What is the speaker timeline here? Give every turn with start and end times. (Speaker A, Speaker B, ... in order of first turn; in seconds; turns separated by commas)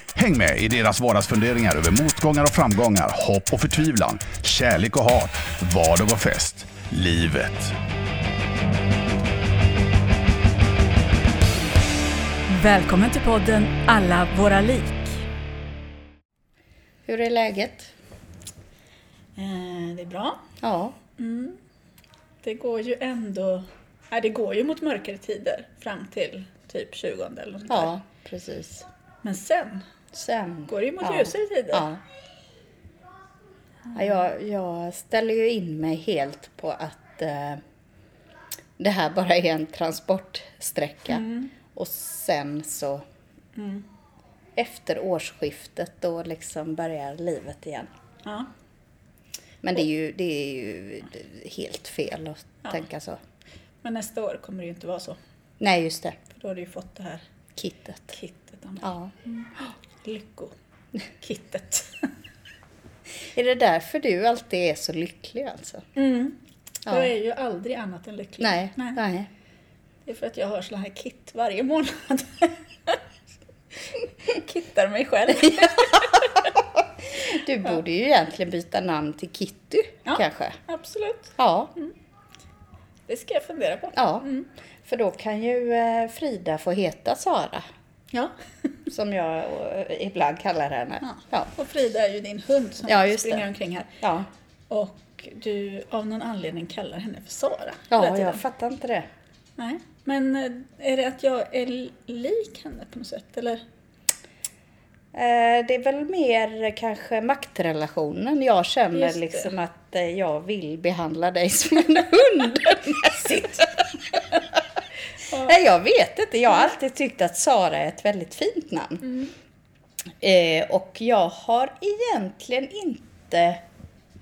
Speaker A: 0.1-7.8, Speaker B: 12.5-15.2, Speaker C: 17.1-17.9, Speaker B: 19.4-20.4, Speaker C: 20.6-21.0, Speaker B: 21.2-21.6, Speaker B: 22.4-27.9, Speaker C: 27.7-28.9, Speaker B: 29.2-29.9, Speaker C: 30.1-32.0, Speaker B: 30.7-31.9, Speaker C: 34.0-37.6, Speaker C: 38.8-43.0, Speaker B: 41.1-41.5, Speaker B: 43.6-43.9, Speaker C: 44.6-47.9, Speaker B: 48.2-48.5, Speaker C: 49.6-53.2, Speaker B: 53.8-55.2, Speaker C: 55.6-56.2, Speaker B: 56.3-57.3, Speaker C: 57.6-58.2, Speaker B: 58.1-60.5, Speaker C: 58.8-59.1, Speaker B: 61.1-62.1, Speaker C: 63.3-65.9, Speaker B: 66.0-69.0, Speaker C: 68.4-69.3, Speaker B: 70.0-73.0, Speaker B: 73.9-76.5, Speaker C: 75.6-76.2, Speaker C: 76.8-80.6, Speaker B: 80.1-81.9, Speaker C: 81.4-81.7, Speaker B: 83.1-84.5, Speaker C: 84.0-84.3, Speaker C: 84.8-87.7, Speaker C: 88.9-91.5, Speaker B: 91.0-94.0, Speaker C: 92.9-93.5, Speaker C: 94.0-94.3, Speaker B: 94.7-98.4, Speaker C: 97.9-99.1, Speaker B: 99.6-103.6, Speaker C: 105.1-114.2, Speaker B: 109.0-109.5, Speaker C: 115.3-119.1, Speaker B: 119.1-119.3, Speaker C: 120.2-123.6